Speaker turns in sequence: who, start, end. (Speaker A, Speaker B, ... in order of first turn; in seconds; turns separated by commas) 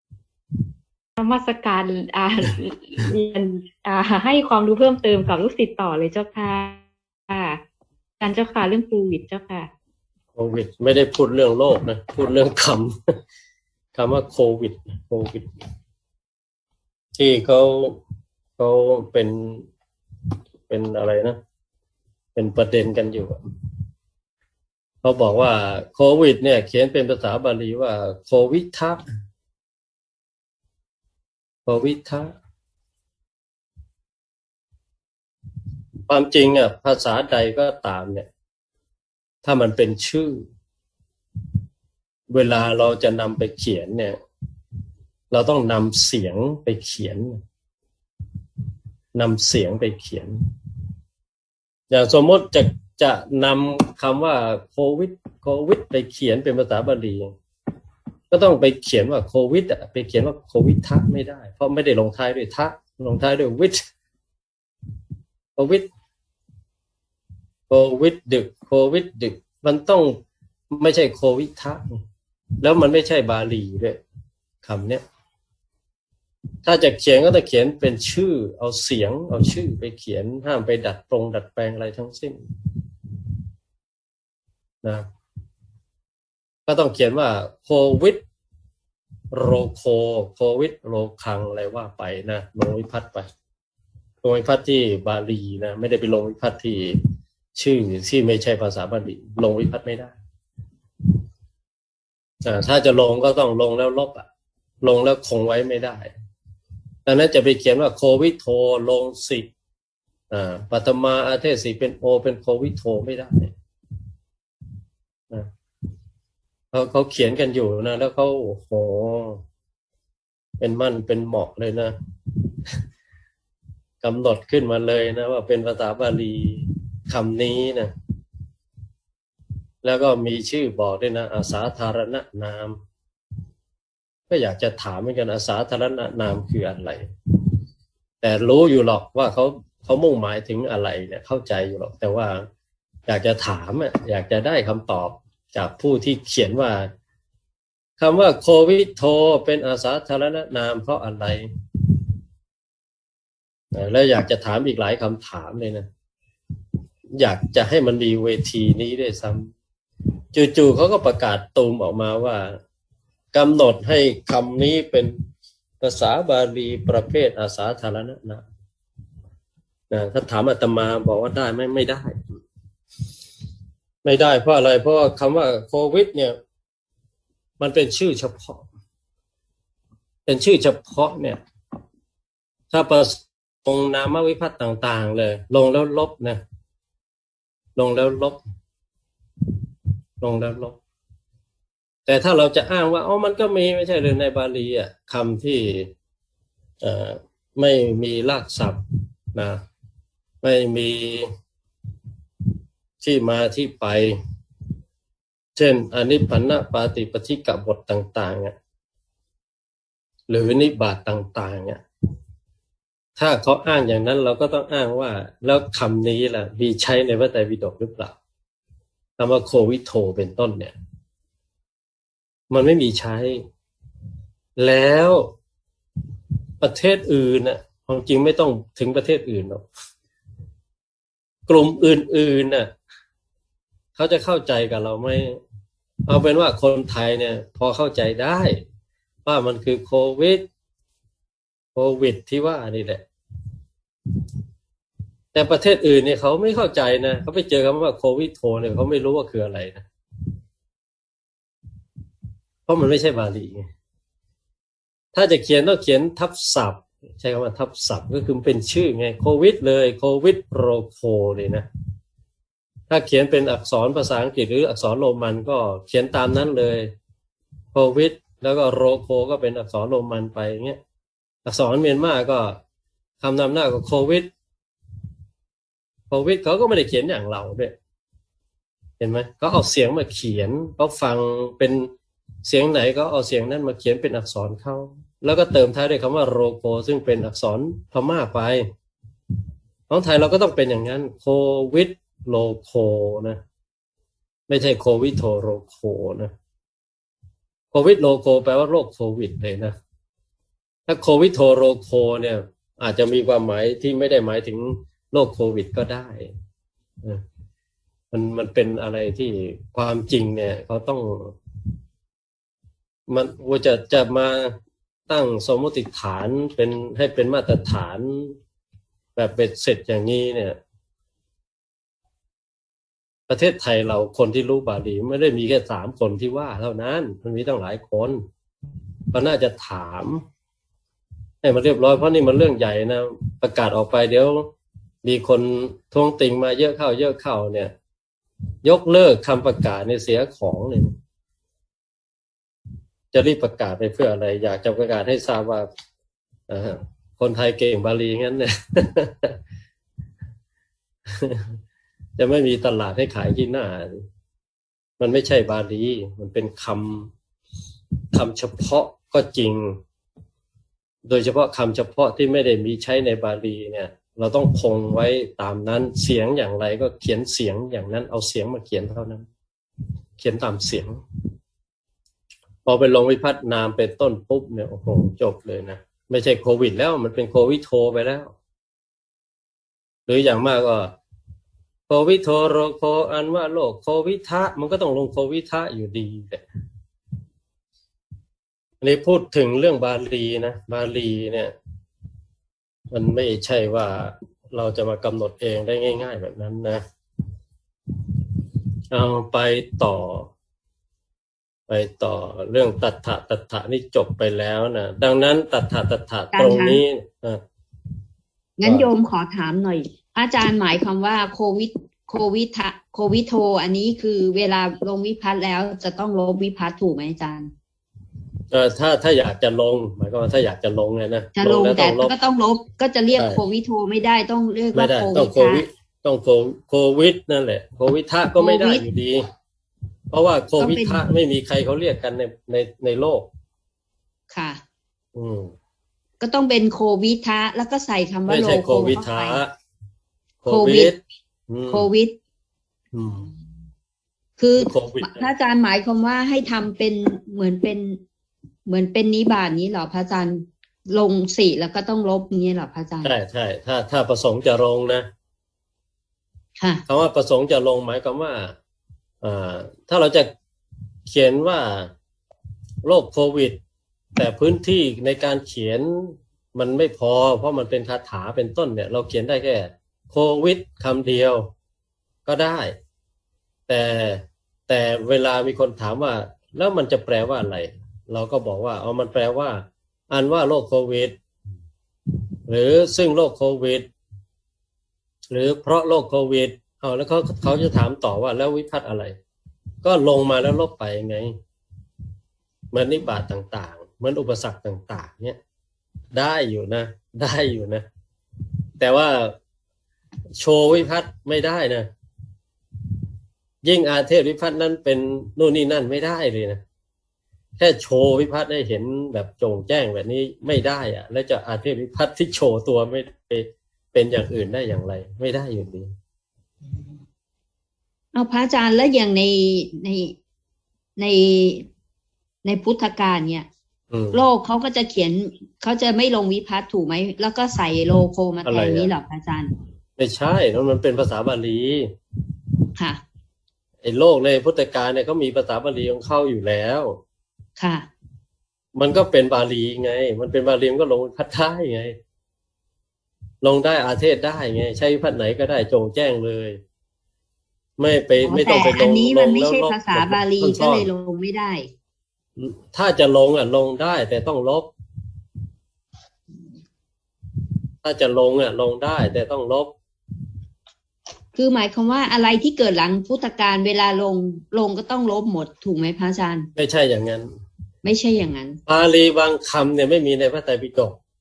Speaker A: 1.2-7.6, Speaker A: 8.2-9.7, Speaker B: 10.3-12.9, Speaker B: 13.9-15.4, Speaker B: 17.2-18.0, Speaker B: 18.6-19.6, Speaker B: 20.7-21.4, Speaker B: 22.4-23.4, Speaker B: 25.0-29.0, Speaker B: 31.7-32.3, Speaker B: 36.1-38.3, Speaker B: 39.4-40.4, Speaker B: 42.3-44.2, Speaker B: 45.3-47.4, Speaker B: 49.1-50.3, Speaker B: 51.9-57.3, Speaker B: 58.3-63.8, Speaker B: 65.6-65.8, Speaker B: 67.7-70.2, Speaker B: 70.7-72.0, Speaker B: 72.6-74.0, Speaker B: 74.6-75.0, Speaker B: 76.7-82.4, Speaker B: 86.7-88.2, Speaker B: 89.3-93.3, Speaker B: 94.2-96.9, Speaker B: 97.5-100.2, Speaker B: 102.4-104.3, Speaker B: 104.8-106.1, Speaker B: 107.1-109.5, Speaker B: 110.3-113.5, Speaker B: 116.7-119.4, Speaker B: 120.6-121.9, Speaker B: 124.0-127.9, Speaker B: 129.8-132.8, Speaker B: 134.3-137.0, Speaker B: 138.2-142.4, Speaker B: 143.1-146.9, Speaker B: 148.0-151.5, Speaker B: 153.7-155.9, Speaker B: 157.2-159.5, Speaker B: 160.3-162.6, Speaker B: 163.3-165.2, Speaker B: 165.8-168.4, Speaker B: 169.9-172.2, Speaker B: 174.0-176.3, Speaker B: 177.6-178.6, Speaker B: 180.3-181.4, Speaker B: 182.7-186.4, Speaker B: 187.8-188.4, Speaker B: 190.2-190.8, Speaker B: 192.1-195.9, Speaker B: 196.8-198.8, Speaker B: 199.3-199.6, Speaker B: 200.4-201.3, Speaker B: 203.0-204.2, Speaker B: 205.6-208.5, Speaker B: 210.3-211.8, Speaker B: 213.2-218.2, Speaker B: 219.2-220.7, Speaker B: 222.5-223.4, Speaker B: 224.6-225.2, Speaker B: 226.6-229.6, Speaker B: 231.5-232.7, Speaker B: 233.9-235.4, Speaker B: 236.1-238.6, Speaker B: 239.2-240.4, Speaker B: 241.8-243.0, Speaker B: 245.3-249.8, Speaker B: 252.7-253.7, Speaker B: 255.1-261.7, Speaker B: 262.9-266.9, Speaker B: 267.7-270.8, Speaker B: 271.4-272.6, Speaker B: 273.2-274.3, Speaker B: 276.1-277.7, Speaker B: 279.0-281.9, Speaker B: 282.4-288.7, Speaker B: 289.9-293.4, Speaker B: 294.5-296.3, Speaker B: 297.7-299.7, Speaker B: 300.9-306.3, Speaker B: 308.1-311.3, Speaker B: 313.1-314.5, Speaker B: 315.1-318.3, Speaker B: 319.2-320.6, Speaker B: 323.3-328.2, Speaker B: 329.1-330.2, Speaker B: 331.4-334.5, Speaker B: 335.0-337.7, Speaker B: 338.6-340.9, Speaker B: 343.1-345.7, Speaker B: 346.5-349.4, Speaker B: 351.1-351.5, Speaker B: 352.2-354.0, Speaker B: 355.0-357.1, Speaker B: 358.1-359.8, Speaker B: 361.1-369.3, Speaker B: 370.2-371.0, Speaker B: 372.6-378.3, Speaker B: 380.1-380.9, Speaker B: 381.9-386.4, Speaker B: 388.8-391.5, Speaker B: 392.9-396.8, Speaker B: 398.9-400.3, Speaker B: 401.7-407.4, Speaker C: 406.3-406.8, Speaker C: 408.6-417.5, Speaker B: 408.6-408.9, Speaker B: 418.5-422.1, Speaker C: 421.4-425.6, Speaker B: 423.1-423.4, Speaker B: 424.7-429.2, Speaker C: 428.4-428.8, Speaker B: 430.1-433.2, Speaker C: 430.6-431.0, Speaker C: 434.3-434.6, Speaker B: 435.2-435.5, Speaker C: 436.2-439.4, Speaker B: 438.3-439.5, Speaker B: 440.4-440.9, Speaker C: 440.5-440.9, Speaker B: 441.5-441.9, Speaker C: 441.7-442.1, Speaker B: 442.9-443.3, Speaker C: 444.4-448.0, Speaker B: 444.6-445.3, Speaker C: 448.7-453.1, Speaker B: 453.0-455.1, Speaker B: 456.9-458.5, Speaker B: 459.2-460.3, Speaker B: 461.1-461.9, Speaker B: 462.8-463.6, Speaker B: 464.2-471.5, Speaker B: 472.2-472.7, Speaker B: 473.7-481.1, Speaker B: 482.5-483.9, Speaker B: 485.3-489.2, Speaker B: 489.8-491.3, Speaker B: 492.7-495.4, Speaker B: 496.1-497.9, Speaker B: 498.8-499.3, Speaker B: 500.4-501.9, Speaker B: 503.6-506.6, Speaker B: 507.6-515.9, Speaker C: 518.1-520.1, Speaker C: 521.0-521.7, Speaker C: 522.4-523.5, Speaker B: 523.9-524.2, Speaker C: 524.1-529.5, Speaker B: 528.5-528.9, Speaker B: 530.0-531.9, Speaker B: 533.8-537.0, Speaker C: 537.6-537.9, Speaker B: 538.8-542.0, Speaker B: 543.4-546.6, Speaker B: 547.8-550.9, Speaker C: 548.2-551.7, Speaker B: 552.4-554.7, Speaker B: 557.8-559.7, Speaker C: 561.4-566.5, Speaker B: 566.6-567.3, Speaker C: 567.8-568.6, Speaker B: 568.7-571.0